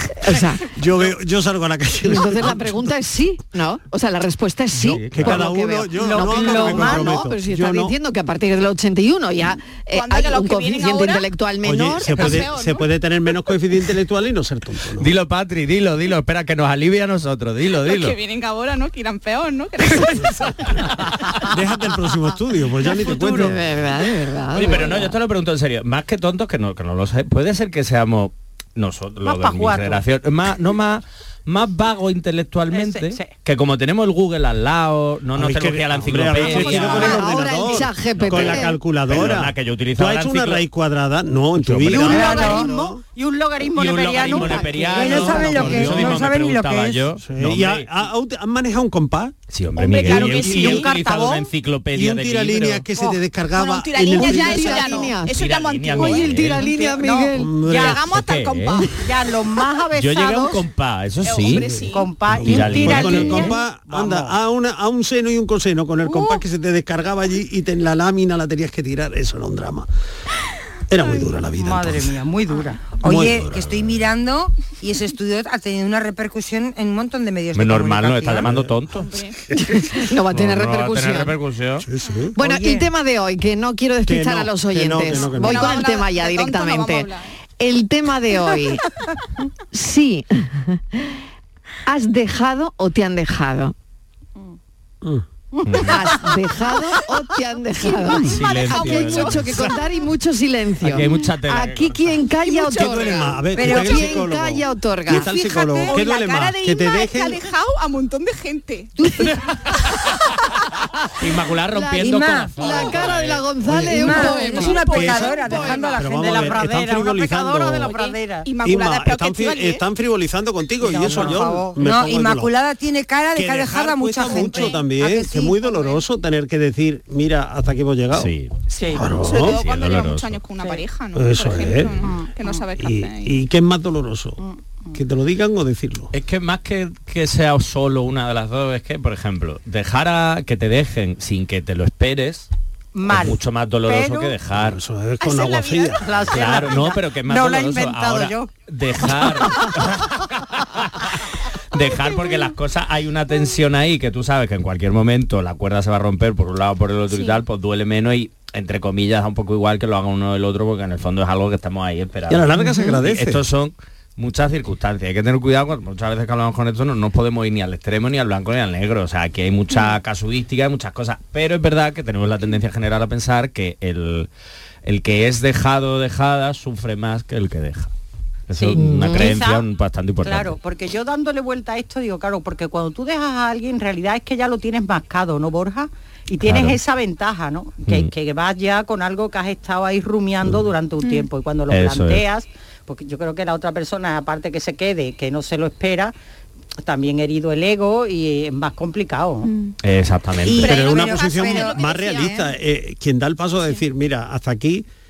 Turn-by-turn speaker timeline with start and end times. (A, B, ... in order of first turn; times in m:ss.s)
0:00.2-0:00.7 A
0:00.6-0:02.9 B
0:02.0-0:12.4 A
0:04.8-0:07.9 B
0:04.8-0:05.4 C
0:06.0-0:07.2 D
0:09.9-0:11.3 E
0:11.6-0:15.1 B
0:12.1-0:12.8 E
0:15.0-0:18.2 C
0:17.8-0:20.8 E
0:21.5-0:23.6 B
0:23.1-0:25.1 A
0:24.5-0:37.2 C
0:29.2-0:30.0 D
0:32.7-0:33.3 D
0:35.3-0:43.0 B
0:36.4-0:38.8 A
0:38.2-0:40.6 C
0:41.6-0:42.2 C
0:41.9-0:45.9 D
0:42.0-0:42.7 F
0:43.7-0:47.9 C
0:44.9-0:47.0 F
0:45.5-0:46.2 B
0:47.2-0:49.3 B
0:49.5-0:52.8 C
0:49.8-0:50.9 E
0:50.1-0:50.8 B
0:50.3-0:51.4 D
0:51.9-0:55.1 B
0:53.5-0:56.9 E
0:54.1-0:57.5 A
0:55.3-0:57.0 C
0:57.0-0:58.0 D
0:57.4-0:58.0 B
0:57.7-0:59.1 E
0:57.8-0:59.0 C
0:59.0-1:00.6 D
1:00.0-1:01.8 C
1:01.2-1:02.1 E
1:01.5-1:09.9 B
1:01.8-1:04.3 D
1:02.4-1:03.5 C
1:10.9-1:12.2 B
1:11.6-1:13.0 D
1:13.0-1:18.5 F
1:13.0-1:14.1 B
1:17.5-1:19.1 C
1:18.4-1:18.8 B
1:19.0-1:19.4 E
1:19.6-1:21.3 A
1:20.3-1:21.8 C
1:21.8-1:22.3 B
1:22.4-1:28.8 A
1:22.4-1:22.9 F
1:24.0-1:25.8 B
1:25.4-1:27.3 E
1:29.7-1:31.2 A
1:31.8-1:33.7 A
1:35.6-1:36.0 C
1:35.8-1:45.3 A
1:37.9-1:39.8 E
1:38.2-1:39.7 C
1:40.8-1:42.0 C
1:42.6-1:43.1 E
1:42.7-1:47.4 B
1:43.5-1:44.2 F
1:45.1-1:46.2 F
1:45.8-1:49.3 E
1:49.0-1:49.3 F
1:51.2-1:53.5 C
1:51.7-1:55.7 A
1:52.0-1:52.9 F
1:53.6-1:57.9 B
1:53.8-1:56.6 F
1:54.1-1:55.8 E
1:55.6-1:58.5 D
1:57.8-1:59.8 E
1:58.6-2:02.5 B
2:00.8-2:06.0 F
2:01.0-2:01.7 D
2:03.3-2:08.3 B
2:04.3-2:04.8 E
2:08.1-2:08.5 C
2:08.7-2:09.1 D
2:08.9-2:13.3 E
2:08.9-2:09.6 B
2:09.4-2:10.4 C
2:11.1-2:12.1 B
2:12.0-2:12.6 D
2:12.8-2:14.4 B
2:14.4-2:15.0 D
2:14.9-2:16.1 B
2:16.1-2:22.5 C
2:22.9-2:24.3 D
2:23.1-2:24.8 C
2:24.5-2:26.0 B
2:25.2-2:26.0 E
2:25.9-2:28.5 D
2:26.3-2:31.1 C
2:31.7-2:54.3 C
2:42.3-2:43.4 B
2:54.8-2:57.9 C
2:58.5-3:00.6 C
2:58.5-2:59.6 D
2:58.8-2:59.3 A
3:00.2-3:16.1 D
3:06.4-3:06.8 C
3:07.8-3:08.1 C
3:11.7-3:12.2 C
3:16.8-3:19.5 D
3:19.8-3:20.7 C
3:20.4-3:22.5 F
3:20.5-3:22.4 E
3:20.6-3:24.8 B